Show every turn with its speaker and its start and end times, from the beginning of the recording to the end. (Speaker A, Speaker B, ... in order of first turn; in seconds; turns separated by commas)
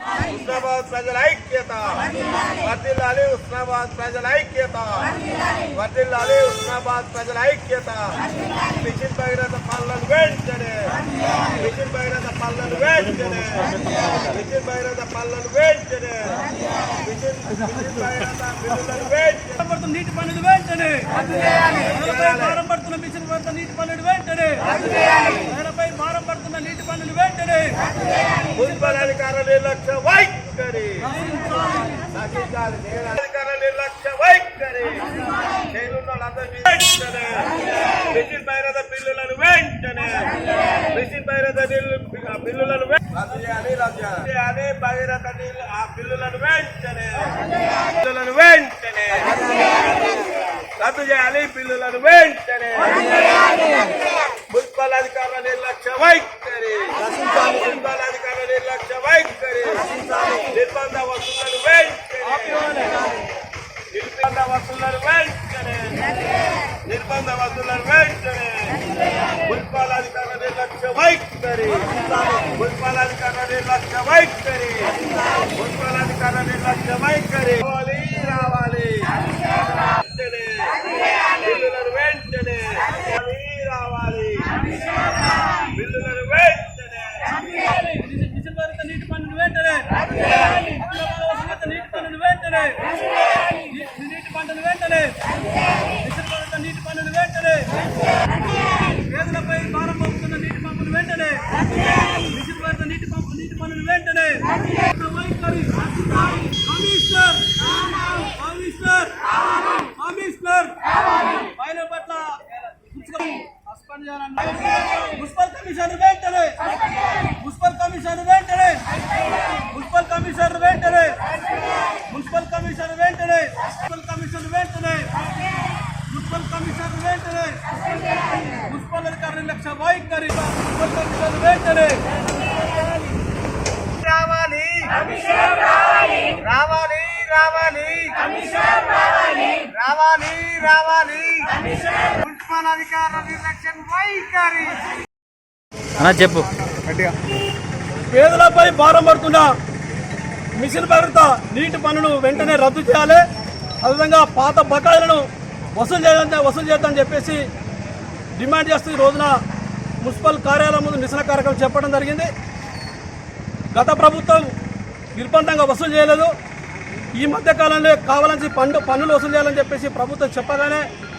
Speaker A: 0.3-2.0, Speaker A: 2.5-5.1, Speaker A: 5.7-10.9, Speaker A: 11.5-16.4, Speaker A: 17.0-19.6, Speaker B: 19.6-24.6, Speaker A: 21.9-22.6, Speaker B: 25.3-27.8, Speaker A: 28.5-31.0, Speaker B: 31.2-31.8, Speaker A: 32.1-35.0, Speaker A: 35.7-40.3, Speaker A: 40.9-47.4, Speaker A: 47.9-49.5, Speaker A: 50.8-53.2, Speaker A: 54.5-62.8, Speaker A: 63.9-65.9, Speaker A: 66.8-68.8, Speaker A: 69.4-74.9, Speaker A: 75.5-79.1, Speaker A: 79.9-84.5, Speaker A: 85.7-87.3, Speaker B: 87.6-92.9, Speaker B: 93.5-95.2, Speaker B: 96.0-97.8, Speaker B: 98.9-101.4, Speaker B: 102.1-110.8, Speaker B: 111.3-116.6, Speaker B: 117.4-118.8, Speaker B: 119.5-121.2, Speaker B: 122.1-125.1, Speaker B: 126.1-127.6, Speaker B: 128.7-132.0, Speaker A: 134.0-134.9, Speaker A: 136.4-138.2, Speaker A: 139.7-141.6, Speaker A: 142.1-144.8, Speaker B: 148.1-149.5, Speaker B: 150.6-153.2, Speaker B: 153.8-157.4, Speaker B: 158.3-159.4, Speaker B: 160.0-162.3, Speaker B: 163.7-164.5, Speaker B: 165.1-166.3, Speaker B: 167.1-170.8